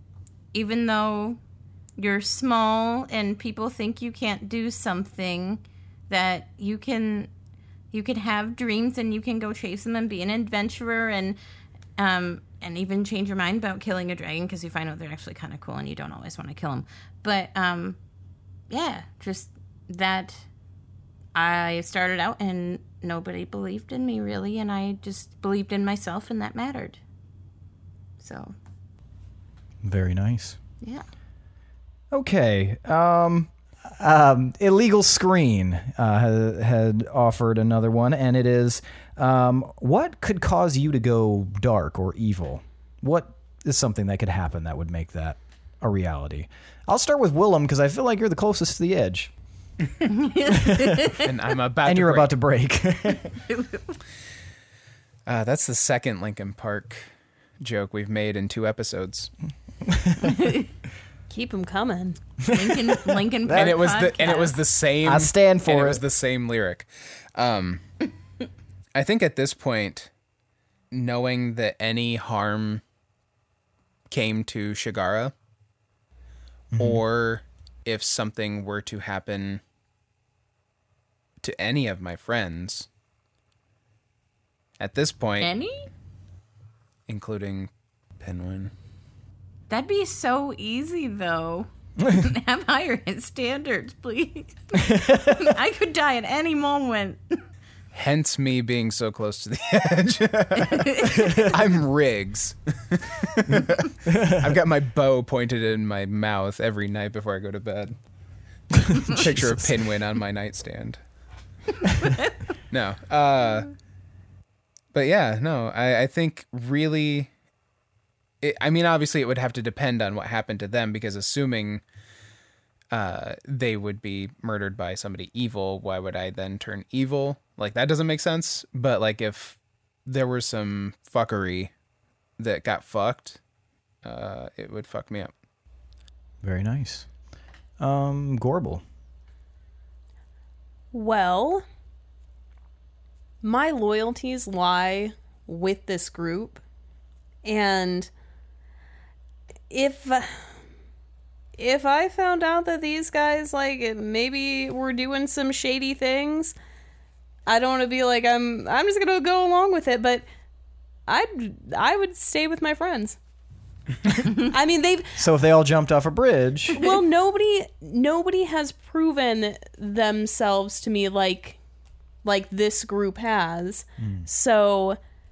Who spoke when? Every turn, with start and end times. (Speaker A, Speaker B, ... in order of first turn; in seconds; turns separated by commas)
Speaker A: 0.5-1.4, Speaker A: 2.0-7.3, Speaker A: 7.9-11.4, Speaker A: 12.0-18.0, Speaker A: 18.7-20.4, Speaker A: 21.3-27.0, Speaker A: 28.2-28.5, Speaker B: 29.8-30.6, Speaker B: 32.1-49.3, Speaker A: 50.1-51.2, Speaker B: 50.4-51.2, Speaker C: 51.1-52.3, Speaker B: 51.8-53.4, Speaker A: 53.5-54.0, Speaker C: 55.3-57.1, Speaker C: 57.6-59.3, Speaker B: 59.9-60.4, Speaker A: 60.2-60.6, Speaker D: 61.3-62.2, Speaker B: 62.4-63.8, Speaker A: 62.5-64.6, Speaker C: 63.5-67.8, Speaker B: 65.0-66.0, Speaker C: 68.9-70.1, Speaker C: 70.9-72.8, Speaker C: 74.1-75.3, Speaker B: 76.7-77.0, Speaker C: 76.8-79.6, Speaker C: 81.4-82.9, Speaker C: 84.8-85.5, Speaker A: 85.4-85.9, Speaker C: 87.1-88.7, Speaker A: 89.7-97.4, Speaker B: 94.8-95.5, Speaker C: 97.9-108.0, Speaker A: 100.6-101.5, Speaker B: 104.1-104.4, Speaker B: 108.8-109.7, Speaker C: 108.9-111.0, Speaker C: 112.7-113.7, Speaker C: 114.9-117.3, Speaker C: 118.4-121.8, Speaker C: 122.9-131.7, Speaker C: 132.4-133.4, Speaker C: 134.0-135.3, Speaker B: 136.4-137.1, Speaker B: 137.8-138.8, Speaker D: 140.9-141.6, Speaker D: 143.4-146.6, Speaker D: 147.4-148.1, Speaker D: 149.7-150.3, Speaker D: 151.6-156.5, Speaker D: 157.4-160.2, Speaker D: 161.1-163.2, Speaker D: 164.2-165.2, Speaker B: 165.2-166.8, Speaker D: 166.7-171.6, Speaker D: 172.2-175.0, Speaker B: 174.0-174.2